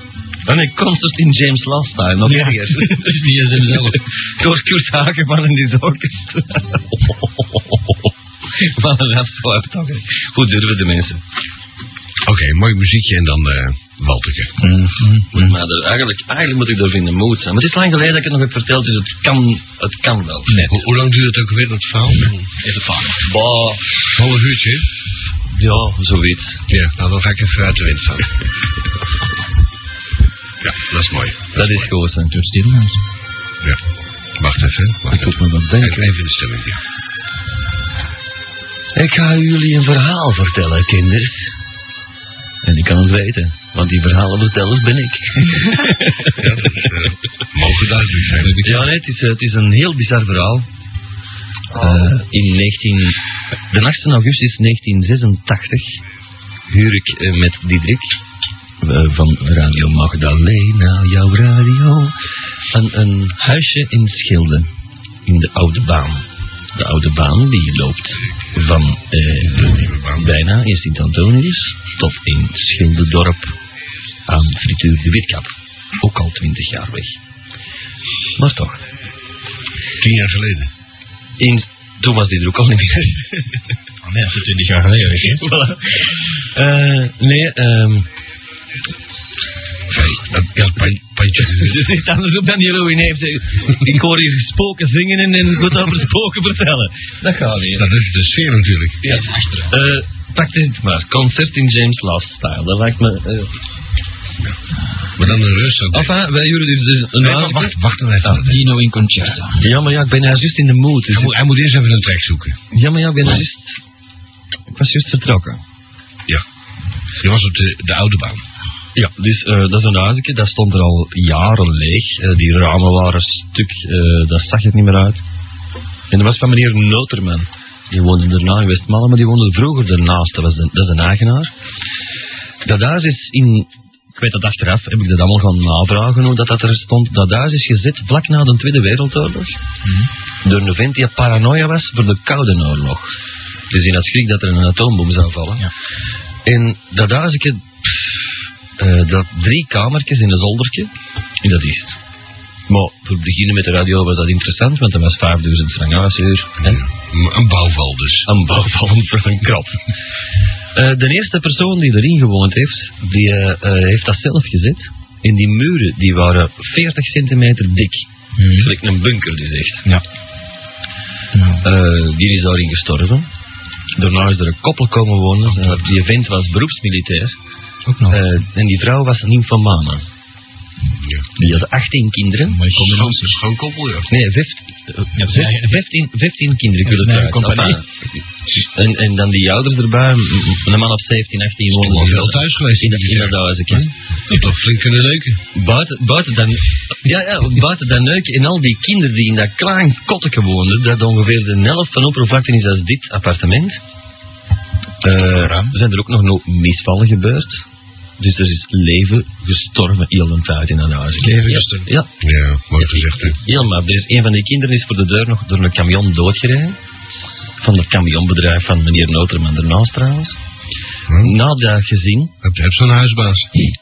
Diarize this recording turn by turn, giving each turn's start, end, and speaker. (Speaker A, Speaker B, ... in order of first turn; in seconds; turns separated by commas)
Speaker A: 0.5-7.2, Speaker B: 2.3-4.0, Speaker A: 8.6-11.2, Speaker C: 12.3-14.6, Speaker B: 14.6-15.6, Speaker A: 15.3-20.7, Speaker C: 20.6-22.5, Speaker B: 22.6-23.2, Speaker A: 23.2-23.8, Speaker C: 24.1-24.9, Speaker A: 25.5-26.6, Speaker C: 26.7-28.3, Speaker C: 30.6-31.9, Speaker A: 31.5-32.3, Speaker B: 32.3-33.0, Speaker C: 34.4-36.8, Speaker A: 35.1-36.1, Speaker A: 39.0-41.5, Speaker A: 42.6-46.4, Speaker C: 46.4-48.6, Speaker B: 48.4-48.9, Speaker A: 48.6-50.7, Speaker A: 51.7-53.2, Speaker A: 53.7-56.0, Speaker A: 56.7-58.1, Speaker A: 58.8-62.1, Speaker A: 62.7-64.7, Speaker A: 65.2-73.5, Speaker C: 69.5-70.3, Speaker A: 74.3-77.2, Speaker A: 78.4-78.8, Speaker C: 80.0-80.7, Speaker A: 81.4-83.4, Speaker B: 84.0-85.5, Speaker A: 85.2-86.0, Speaker A: 86.5-88.1, Speaker C: 89.9-91.9, Speaker A: 91.4-97.9, Speaker C: 97.7-99.0, Speaker A: 99.0-103.5, Speaker B: 99.1-99.7, Speaker C: 105.2-106.2, Speaker A: 105.9-108.4, Speaker C: 107.2-108.7, Speaker B: 108.3-109.7, Speaker A: 109.6-111.4, Speaker C: 111.1-112.6, Speaker A: 112.7-113.8, Speaker A: 114.7-115.6, Speaker C: 117.2-118.4, Speaker A: 119.0-125.2, Speaker A: 126.1-131.5, Speaker A: 132.7-139.6, Speaker A: 140.4-143.1, Speaker A: 143.7-145.7, Speaker A: 146.4-148.0, Speaker A: 148.8-152.0, Speaker A: 152.7-156.8, Speaker C: 156.6-158.3, Speaker A: 158.3-159.8, Speaker A: 160.8-169.9, Speaker B: 168.4-168.7, Speaker B: 171.3-171.7, Speaker A: 171.6-173.3, Speaker A: 174.0-177.4, Speaker B: 177.9-178.3, Speaker A: 178.1-180.0, Speaker C: 181.0-181.3, Speaker A: 181.4-182.6, Speaker B: 182.5-183.4, Speaker C: 182.7-184.1, Speaker A: 184.1-187.8, Speaker B: 185.2-185.7, Speaker B: 186.8-187.8, Speaker A: 188.6-193.9, Speaker C: 191.8-195.4, Speaker A: 195.6-203.8, Speaker A: 205.0-207.6, Speaker B: 205.3-205.7, Speaker A: 208.2-212.1, Speaker B: 211.2-211.9, Speaker C: 212.2-213.4, Speaker A: 212.8-216.8, Speaker A: 217.6-220.4, Speaker C: 221.1-221.4, Speaker A: 221.2-222.3, Speaker C: 222.4-223.5